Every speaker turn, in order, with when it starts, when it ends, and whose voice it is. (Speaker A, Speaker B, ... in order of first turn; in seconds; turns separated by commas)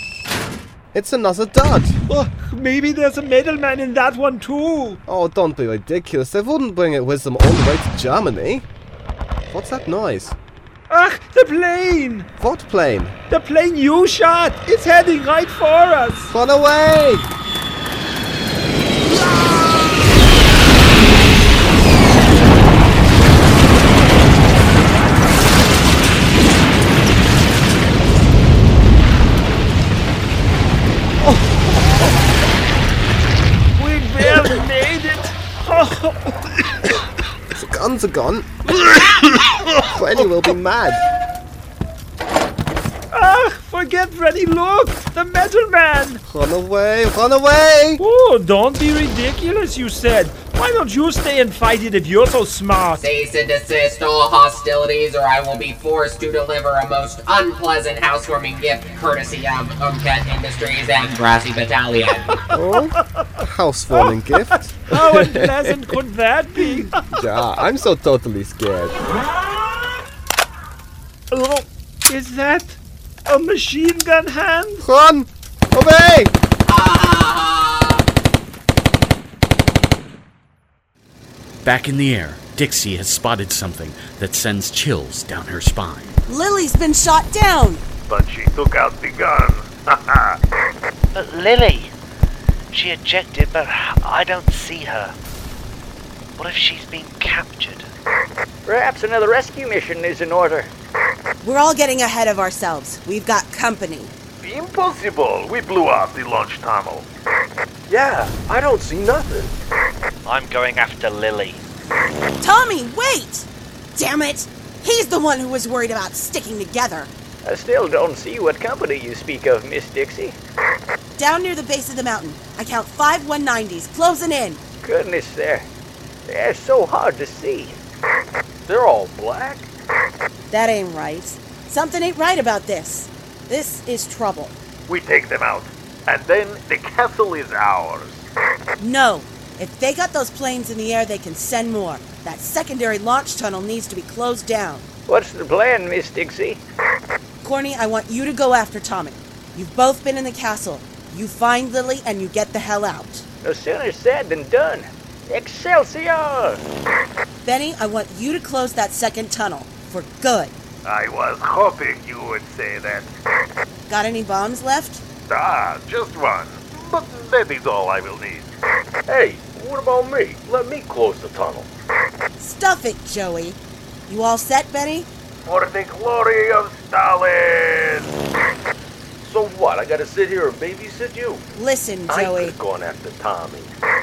Speaker A: 0.9-2.0, Speaker B: 2.1-5.0, Speaker A: 5.1-8.7, Speaker A: 9.5-10.3, Speaker B: 10.9-12.3, Speaker A: 12.4-13.2, Speaker B: 13.3-16.3, Speaker A: 16.3-17.3, Speaker B: 33.8-36.1, Speaker A: 37.5-38.5, Speaker A: 39.9-41.0, Speaker B: 43.1-46.2, Speaker A: 46.3-48.0, Speaker B: 48.0-53.0, Speaker C: 53.0-62.3, Speaker A: 62.5-65.9, Speaker B: 64.9-67.0, Speaker A: 66.6-69.0, Speaker B: 71.3-74.8, Speaker A: 74.8-76.3, Speaker C: 76.7-78.0, Speaker D: 81.6-86.2, Speaker E: 86.3-87.8, Speaker F: 88.1-90.4, Speaker G: 91.1-91.9, Speaker G: 92.7-95.2, Speaker G: 96.4-97.9, Speaker H: 98.7-100.7, Speaker E: 101.4-104.1, Speaker F: 104.4-107.1, Speaker I: 107.9-109.5, Speaker G: 110.2-111.6, Speaker E: 112.4-117.1, Speaker H: 117.4-120.4, Speaker E: 121.2-124.6, Speaker H: 124.8-125.7, Speaker H: 126.3-127.8, Speaker I: 128.7-129.7, Speaker E: 130.5-134.6, Speaker F: 134.9-138.2, Speaker E: 138.8-144.9, Speaker H: 145.1-146.6, Speaker E: 147.4-153.3, Speaker H: 153.4-156.6, Speaker E: 157.4-160.5, Speaker F: 160.8-163.1, Speaker E: 163.9-165.0, Speaker F: 165.3-168.5, Speaker I: 169.1-171.7, Speaker E: 172.4-175.1, Speaker F: 175.5-178.1, Speaker I: 179.2-181.4, Speaker E: 181.6-182.6, Speaker I: 182.1-183.7